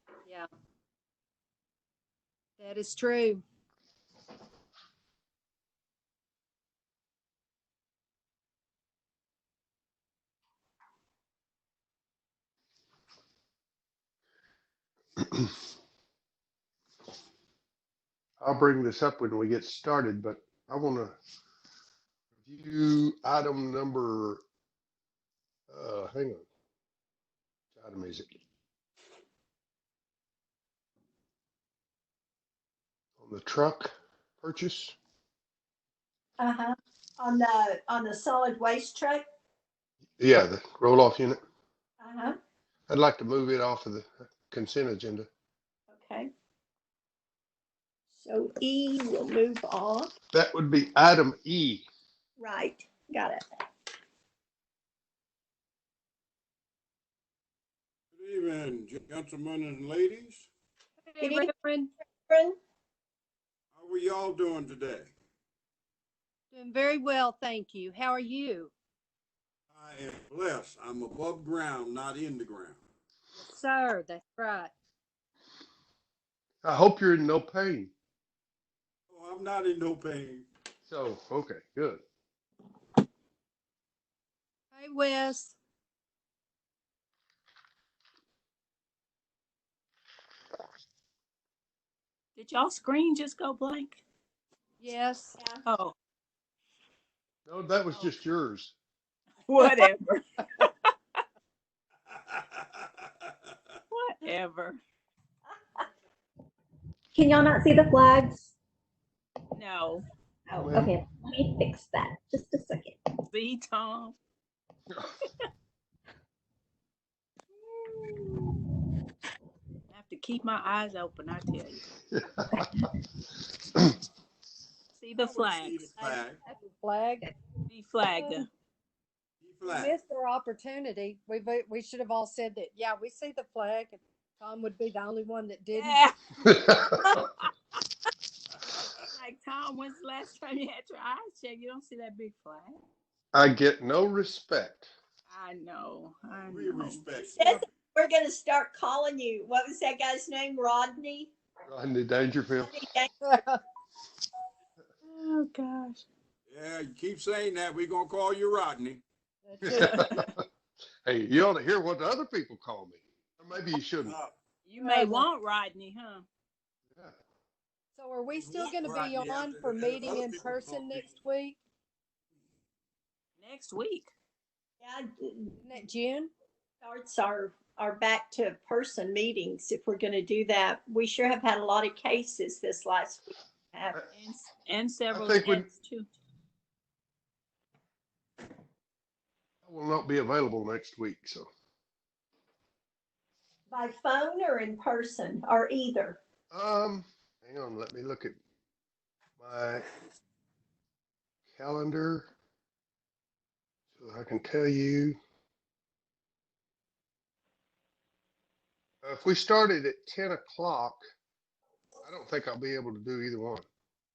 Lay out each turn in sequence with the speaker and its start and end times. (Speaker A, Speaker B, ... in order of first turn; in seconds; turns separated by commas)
Speaker A: 2.6-3.4, Speaker B: 15.2-15.5, Speaker B: 18.4-21.1, Speaker B: 22.4-24.4, Speaker B: 25.7-26.4, Speaker B: 27.7-28.3, Speaker B: 33.2-34.9, Speaker C: 36.4-39.2, Speaker B: 40.2-41.4, Speaker C: 42.0-42.4, Speaker B: 42.9-45.3, Speaker C: 45.9-46.3, Speaker C: 48.1-50.1, Speaker B: 50.3-51.9, Speaker C: 52.4-53.4, Speaker D: 58.1-60.5, Speaker A: 61.0-61.9, Speaker C: 61.2-61.5, Speaker C: 62.3-62.5, Speaker D: 63.7-65.1, Speaker A: 66.5-68.7, Speaker D: 69.7-72.8, Speaker A: 73.3-74.7, Speaker B: 76.6-77.9, Speaker D: 79.1-80.5, Speaker B: 80.9-82.0, Speaker A: 84.7-85.5, Speaker E: 92.3-94.0, Speaker A: 94.8-95.3, Speaker E: 95.6-95.9, Speaker B: 97.5-98.7, Speaker E: 99.5-100.7, Speaker D: 102.1-103.3, Speaker E: 103.9-104.8, Speaker F: 107.1-108.5, Speaker E: 109.5-110.0, Speaker F: 110.5-113.0, Speaker B: 110.6-110.9, Speaker E: 113.3-114.2, Speaker E: 119.9-121.8, Speaker B: 122.1-122.7, Speaker E: 125.0-125.9, Speaker D: 125.2-126.4, Speaker A: 126.5-127.3, Speaker E: 127.7-128.5, Speaker A: 128.1-128.4, Speaker D: 129.4-129.9, Speaker A: 129.6-136.0, Speaker E: 135.7-137.3, Speaker B: 136.5-136.9, Speaker E: 139.0-142.8, Speaker B: 143.3-144.9, Speaker E: 145.3-147.0, Speaker D: 146.2-147.6, Speaker C: 147.2-151.3, Speaker B: 151.7-152.7, Speaker C: 152.6-153.1, Speaker A: 153.2-153.6, Speaker E: 155.0-156.0, Speaker D: 156.5-159.0, Speaker A: 159.4-160.2, Speaker B: 159.6-160.4, Speaker E: 159.8-160.3, Speaker B: 161.0-164.2, Speaker D: 164.0-164.3, Speaker E: 164.6-166.2, Speaker A: 164.8-165.3, Speaker A: 167.9-171.6, Speaker D: 168.3-171.1, Speaker E: 173.4-174.1, Speaker C: 174.8-175.6, Speaker A: 175.6-176.3, Speaker C: 176.8-184.0, Speaker E: 184.1-186.1, Speaker B: 185.1-185.7, Speaker B: 189.6-191.5, Speaker C: 193.7-196.2, Speaker B: 196.5-198.3, Speaker B: 199.4-199.8, Speaker B: 201.5-202.3, Speaker B: 203.9-205.2, Speaker B: 209.0-211.0, Speaker B: 212.0-213.6